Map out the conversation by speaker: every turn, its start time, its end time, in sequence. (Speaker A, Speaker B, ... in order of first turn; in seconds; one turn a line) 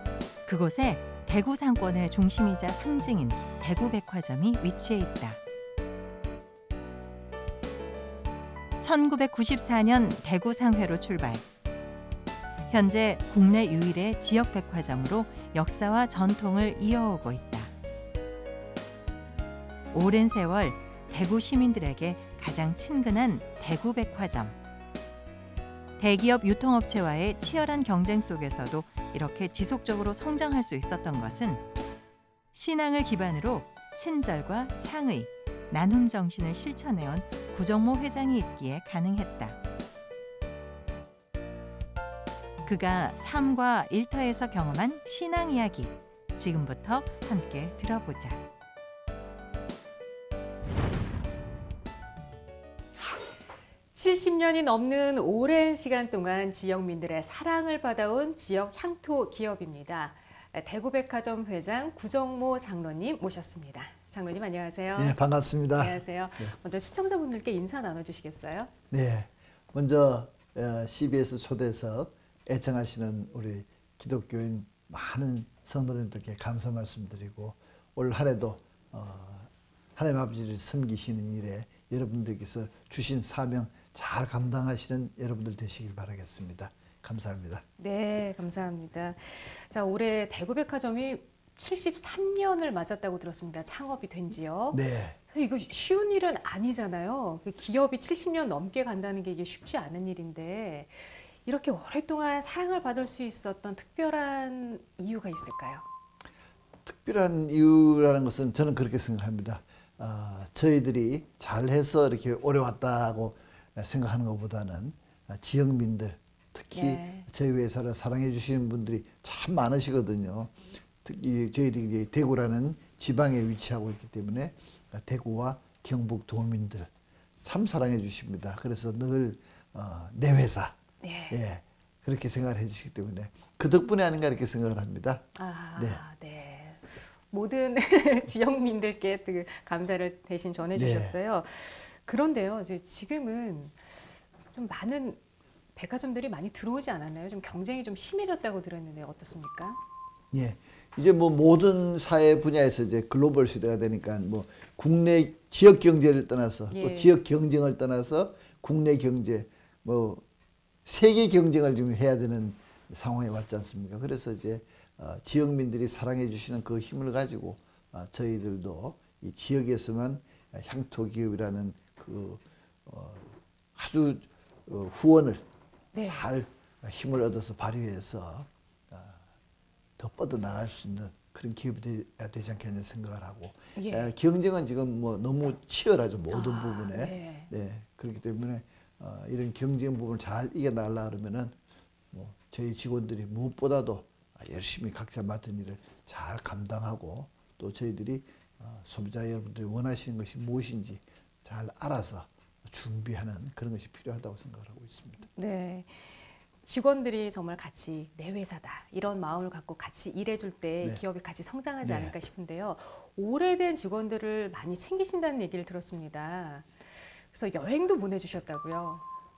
Speaker A: 0.5-5.4
Speaker A: 8.8-11.4
Speaker A: 12.7-17.7
Speaker A: 19.9-24.6
Speaker A: 26.0-31.6
Speaker A: 32.5-39.6
Speaker A: 42.6-48.4
Speaker B: 53.9-65.2
Speaker C: 65.0-66.5
Speaker B: 65.7-68.7
Speaker C: 68.9-87.6
Speaker B: 87.8-105.8
Speaker C: 94.7-95.2
Speaker C: 106.8-130.8
Speaker B: 116.7-117.3
Speaker B: 131.0-131.4
Speaker C: 131.3-136.0
Speaker B: 135.3-145.2
Speaker C: 140.7-141.2
Speaker B: 145.7-149.8
Speaker C: 150.3-160.2
Speaker B: 156.7-157.1
Speaker C: 160.8-175.4
Speaker B: 175.9-176.2
Speaker C: 176.0-179.2
Speaker C: 180.0-191.6
Speaker B: 183.7-184.1
Speaker B: 186.3-187.5
Speaker C: 192.1-205.3
Speaker B: 205.3-219.0
Speaker C: 211.8-212.1